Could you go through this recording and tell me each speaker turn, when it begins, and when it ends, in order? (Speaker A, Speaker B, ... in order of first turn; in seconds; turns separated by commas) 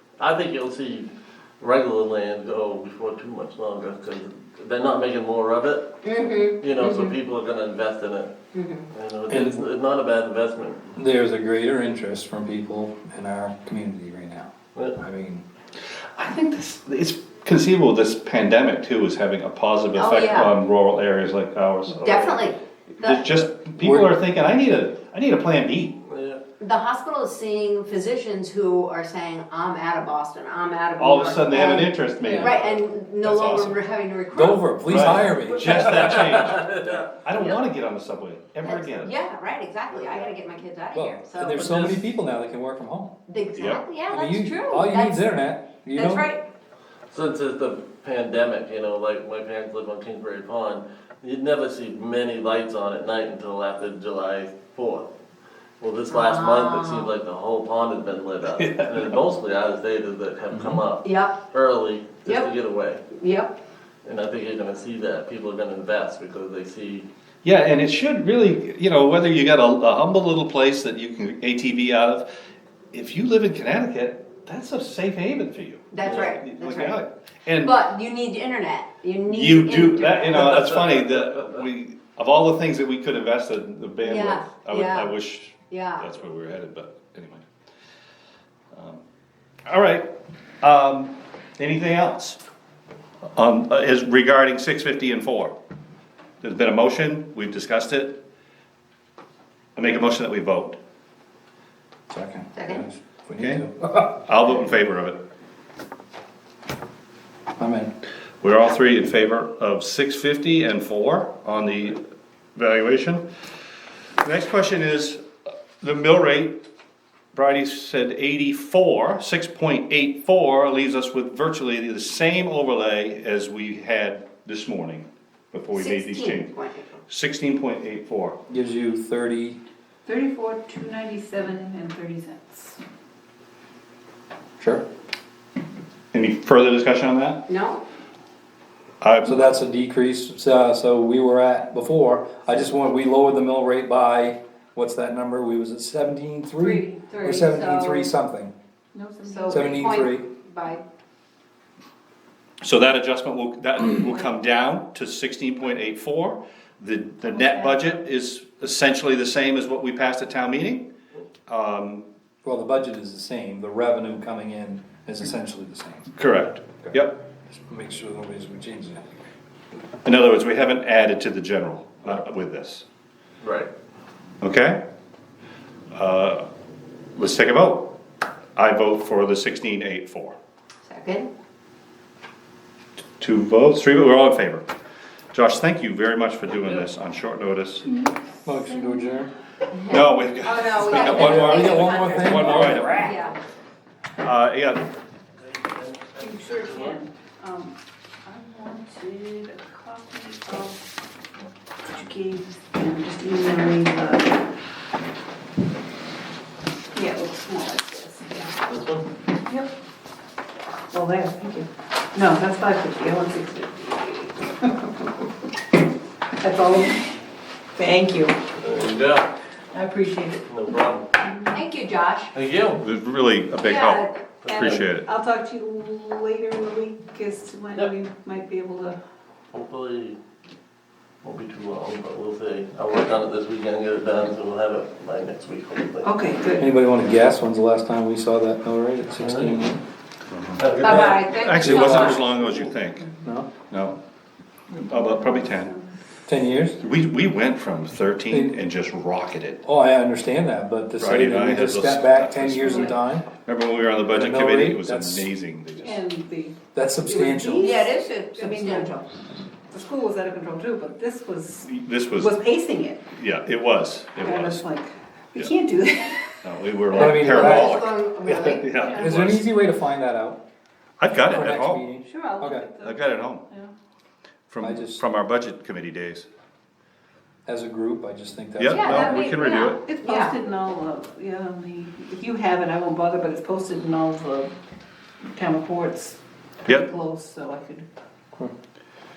Speaker A: 0.2-5.9, Speaker B: 6.0-7.1, Speaker A: 6.6-8.3, Speaker B: 8.5-8.9, Speaker A: 8.9-10.8, Speaker C: 9.3-9.6, Speaker C: 10.9-15.4, Speaker D: 16.1-22.4, Speaker B: 19.9-20.5, Speaker B: 21.9-23.5, Speaker D: 23.0-26.0, Speaker C: 23.8-24.2, Speaker A: 26.1-26.4, Speaker B: 26.6-35.3, Speaker D: 31.0-33.8, Speaker A: 32.3-32.6, Speaker C: 34.3-36.2, Speaker D: 34.9-39.1, Speaker A: 35.5-37.0, Speaker B: 38.6-41.7, Speaker A: 39.9-40.3, Speaker C: 40.9-43.1, Speaker A: 41.5-42.1, Speaker B: 43.3-45.4, Speaker D: 43.5-43.8, Speaker C: 44.1-46.3, Speaker B: 45.9-46.4, Speaker A: 47.1-55.1, Speaker A: 55.8-63.0, Speaker B: 56.1-57.1, Speaker D: 58.6-59.1, Speaker C: 60.5-60.8, Speaker B: 61.0-61.4, Speaker B: 62.2-62.5, Speaker B: 63.1-63.5, Speaker A: 64.0-67.1, Speaker D: 67.4-72.3, Speaker D: 72.9-77.8, Speaker B: 75.9-77.0, Speaker A: 76.0-76.4, Speaker B: 77.6-80.8, Speaker D: 79.3-87.4, Speaker B: 84.0-85.1, Speaker B: 85.7-86.0, Speaker D: 88.7-89.0, Speaker D: 89.7-90.1, Speaker D: 90.6-92.4, Speaker D: 93.3-95.5, Speaker D: 96.4-98.2, Speaker D: 99.8-100.8, Speaker C: 102.1-104.1, Speaker B: 102.5-102.8, Speaker D: 103.4-105.2, Speaker C: 107.6-107.9, Speaker D: 108.4-112.0, Speaker D: 112.5-113.2, Speaker D: 114.2-115.2, Speaker D: 115.8-116.6, Speaker D: 117.3-126.5, Speaker B: 125.7-127.0, Speaker D: 127.1-128.4, Speaker C: 128.5-129.6, Speaker E: 130.1-132.8, Speaker C: 134.6-134.8, Speaker D: 136.1-137.4, Speaker B: 137.5-137.8, Speaker D: 139.0-139.5, Speaker C: 139.2-148.5, Speaker B: 146.6-148.1, Speaker E: 146.8-147.2, Speaker E: 148.9-150.0, Speaker B: 149.2-150.8, Speaker C: 149.5-150.2, Speaker D: 152.6-160.8, Speaker E: 157.3-157.9, Speaker D: 161.5-162.0, Speaker C: 162.4-166.1, Speaker D: 166.2-167.2, Speaker C: 167.5-169.0, Speaker D: 170.0-172.8, Speaker A: 173.4-173.7, Speaker D: 174.4-174.8, Speaker D: 175.9-176.4, Speaker D: 177.2-177.9, Speaker D: 178.6-180.3, Speaker B: 180.8-181.3, Speaker D: 183.2-184.7, Speaker D: 185.3-187.9, Speaker E: 187.8-189.2, Speaker C: 188.4-189.3, Speaker B: 189.7-193.3, Speaker D: 189.9-193.1, Speaker C: 190.8-193.1, Speaker D: 194.2-194.8, Speaker A: 195.6-197.0, Speaker E: 196.2-197.7, Speaker E: 198.2-200.8, Speaker E: 201.8-204.4, Speaker E: 206.9-208.6, Speaker A: 208.7-209.1, Speaker E: 210.9-214.9, Speaker E: 216.4-216.9, Speaker E: 217.8-218.4, Speaker A: 218.6-219.3, Speaker E: 219.7-220.6, Speaker A: 220.5-221.1, Speaker E: 221.2-221.6, Speaker B: 221.5-222.3, Speaker A: 222.3-222.8, Speaker D: 222.8-225.1, Speaker B: 223.6-224.2, Speaker A: 224.4-224.8, Speaker E: 224.5-229.0, Speaker A: 229.5-230.2, Speaker A: 231.2-236.1, Speaker E: 236.0-236.7, Speaker C: 236.6-239.8, Speaker A: 239.2-239.5, Speaker D: 240.3-243.1, Speaker A: 240.6-241.1, Speaker B: 240.8-242.2, Speaker C: 241.5-242.4, Speaker C: 243.2-243.5, Speaker D: 243.7-244.0, Speaker E: 244.8-245.8, Speaker D: 244.8-245.8, Speaker C: 246.3-246.8, Speaker D: 246.8-249.6, Speaker C: 248.3-248.6, Speaker C: 249.6-253.3, Speaker D: 251.0-256.0, Speaker C: 254.1-255.3, Speaker E: 255.8-259.0, Speaker C: 256.7-257.7, Speaker B: 257.6-259.1, Speaker E: 259.7-263.0, Speaker D: 261.6-262.3, Speaker D: 263.1-264.6, Speaker E: 264.2-266.3, Speaker D: 266.4-269.5, Speaker C: 266.9-267.8, Speaker B: 266.9-268.7, Speaker E: 268.7-269.3, Speaker C: 269.0-270.4, Speaker D: 271.0-271.8, Speaker C: 271.1-272.7, Speaker E: 272.0-273.7, Speaker D: 272.8-273.4, Speaker D: 274.5-276.3, Speaker C: 274.6-275.0, Speaker C: 277.4-279.3, Speaker D: 278.6-279.8, Speaker B: 278.6-280.3, Speaker E: 279.4-284.5, Speaker E: 285.3-287.9